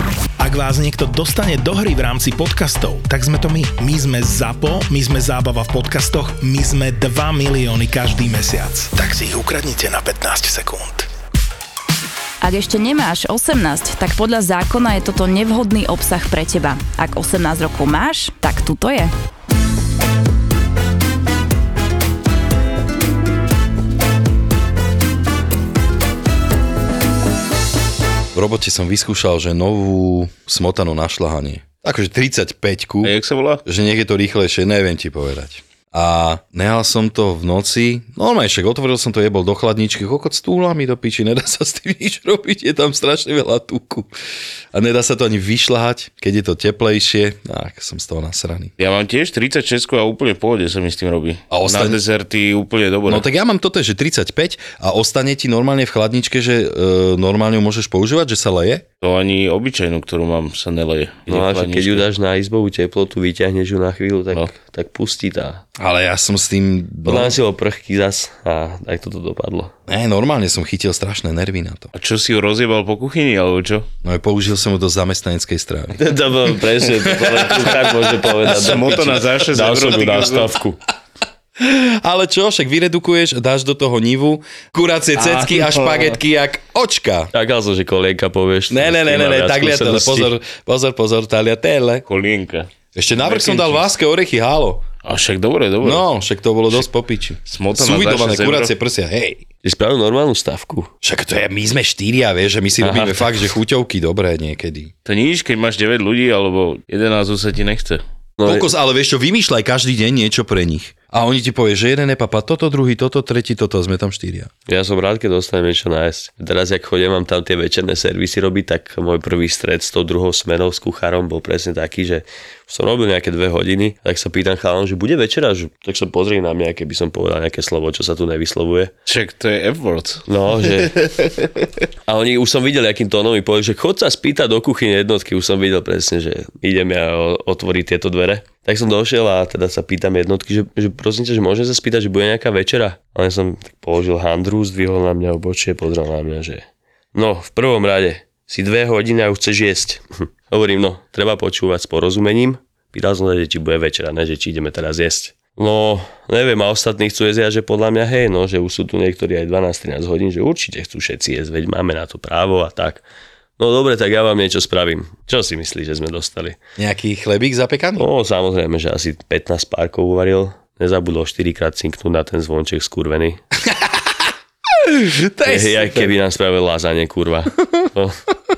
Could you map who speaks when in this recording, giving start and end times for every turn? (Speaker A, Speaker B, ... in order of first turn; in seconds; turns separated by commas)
Speaker A: 0.4-11.1, Speaker B: 12.4-19.1, Speaker C: 28.3-33.1, Speaker D: 33.0-33.6, Speaker C: 33.6-44.1, Speaker C: 44.7-48.7, Speaker D: 48.8-53.3, Speaker C: 51.5-52.0, Speaker C: 53.1-58.9, Speaker D: 59.0-62.1, Speaker E: 61.3-65.6, Speaker C: 65.8-67.4, Speaker E: 67.0-69.7, Speaker C: 69.9-71.9, Speaker D: 71.9-73.9, Speaker C: 74.0-76.0, Speaker E: 76.0-80.8, Speaker C: 77.0-78.5, Speaker D: 78.5-80.5, Speaker C: 81.6-87.3, Speaker D: 85.2-86.2, Speaker E: 87.3-90.3, Speaker C: 88.7-92.0, Speaker D: 92.1-93.9, Speaker C: 93.0-94.8, Speaker D: 95.0-96.1, Speaker C: 95.8-99.4, Speaker D: 97.5-98.7, Speaker E: 99.6-100.9, Speaker C: 101.0-104.9, Speaker E: 102.8-103.3, Speaker D: 105.1-108.0, Speaker E: 108.4-108.7, Speaker C: 108.4-114.5, Speaker E: 114.7-128.9, Speaker D: 129.1-131.5, Speaker E: 130.3-130.9, Speaker E: 132.1-163.0, Speaker E: 163.6-166.6, Speaker C: 166.8-168.1, Speaker E: 168.0-173.4, Speaker C: 174.8-176.1, Speaker E: 175.5-178.2